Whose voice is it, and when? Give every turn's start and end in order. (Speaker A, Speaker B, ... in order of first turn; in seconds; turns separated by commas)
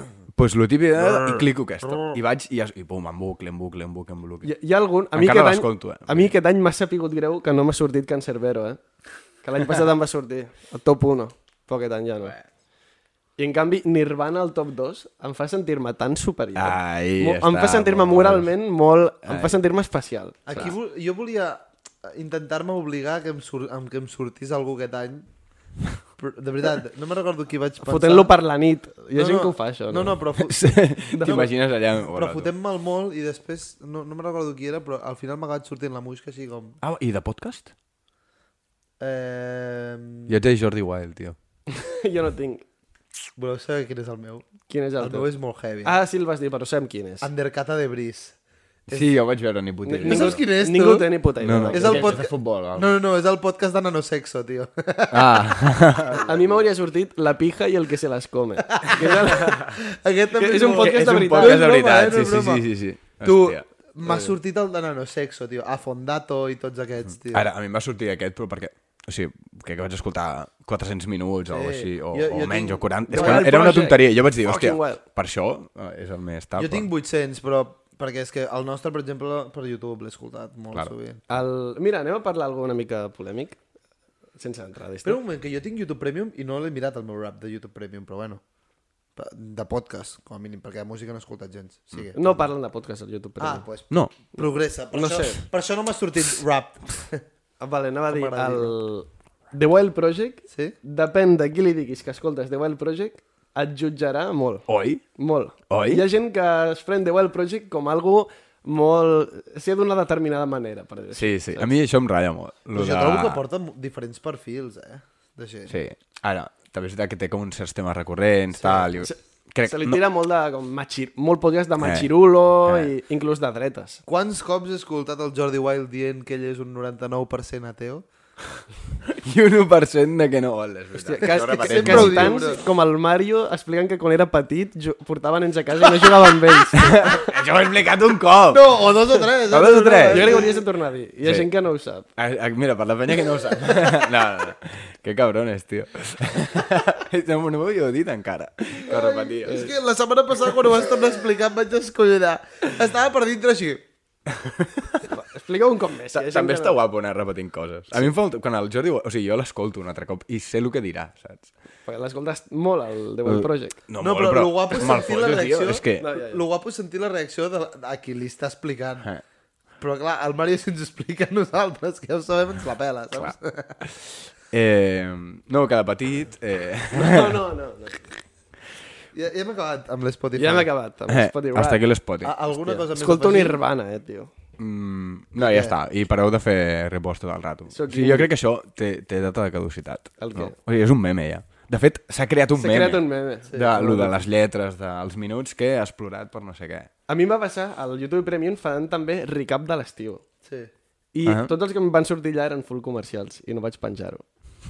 Speaker A: 0.3-4.5, Speaker B: 1.0-1.4, Speaker C: 4.4-8.8, Speaker A: 5.1-6.3, Speaker C: 9.4-12.4, Speaker C: 13.4-20.4, Speaker A: 16.6-18.5, Speaker A: 19.2-19.6, Speaker B: 20.5-25.3, Speaker B: 26.2-28.3, Speaker C: 27.8-30.2, Speaker B: 29.1-30.7, Speaker A: 30.4-32.5, Speaker C: 31.1-31.5, Speaker B: 31.2-31.5, Speaker B: 32.1-36.8, Speaker A: 36.8-37.7, Speaker B: 39.0-40.4, Speaker A: 40.3-41.4, Speaker C: 41.7-42.6, Speaker B: 43.4-45.9, Speaker C: 44.7-45.3, Speaker C: 45.8-47.3, Speaker B: 47.2-48.4, Speaker A: 48.9-50.4, Speaker C: 49.9-52.2, Speaker B: 50.0-51.1, Speaker A: 51.4-52.9, Speaker B: 51.7-55.6, Speaker A: 55.1-56.3, Speaker C: 56.2-59.7, Speaker B: 58.7-62.7, Speaker C: 60.4-61.6, Speaker A: 60.8-63.6, Speaker B: 63.2-67.5, Speaker A: 67.3-76.9, Speaker B: 71.5-73.5, Speaker C: 73.1-75.0, Speaker B: 76.6-81.2, Speaker C: 81.3-83.6, Speaker C: 84.4-85.2, Speaker B: 85.0-88.4, Speaker B: 89.2-92.2, Speaker C: 92.2-93.7, Speaker B: 93.4-97.2, Speaker C: 94.9-95.4, Speaker C: 97.6-111.7, Speaker B: 98.1-98.7, Speaker A: 104.7-105.0, Speaker A: 105.7-106.0, Speaker A: 111.1-113.4, Speaker B: 112.7-115.8, Speaker A: 115.7-120.0, Speaker B: 118.6-118.9, Speaker C: 119.0-124.0, Speaker A: 121.8-122.9, Speaker B: 124.1-128.1, Speaker A: 129.1-132.5, Speaker C: 131.0-137.2, Speaker B: 131.3-132.6, Speaker A: 136.7-138.8, Speaker B: 138.5-140.6, Speaker A: 139.5-140.5, Speaker C: 140.1-142.1, Speaker A: 141.2-141.5, Speaker A: 142.2-149.7, Speaker B: 143.7-144.1, Speaker B: 148.9-153.8, Speaker A: 154.3-155.1, Speaker C: 155.1-156.8, Speaker A: 156.1-161.5, Speaker C: 161.9-163.8, Speaker A: 163.2-166.1, Speaker B: 164.0-169.1, Speaker C: 166.0-166.4, Speaker B: 169.8-173.8, Speaker A: 173.2-177.4, Speaker C: 176.9-178.1, Speaker B: 179.1-180.7, Speaker C: 180.4-181.8, Speaker A: 181.1-182.3, Speaker B: 182.2-183.6, Speaker C: 182.6-184.3, Speaker A: 184.6-196.9, Speaker B: 185.4-185.8, Speaker C: 187.7-188.3, Speaker C: 190.2-190.6, Speaker C: 192.6-194.2, Speaker C: 197.1-200.2, Speaker B: 200.4-200.7, Speaker C: 201.1-204.2, Speaker A: 201.3-201.5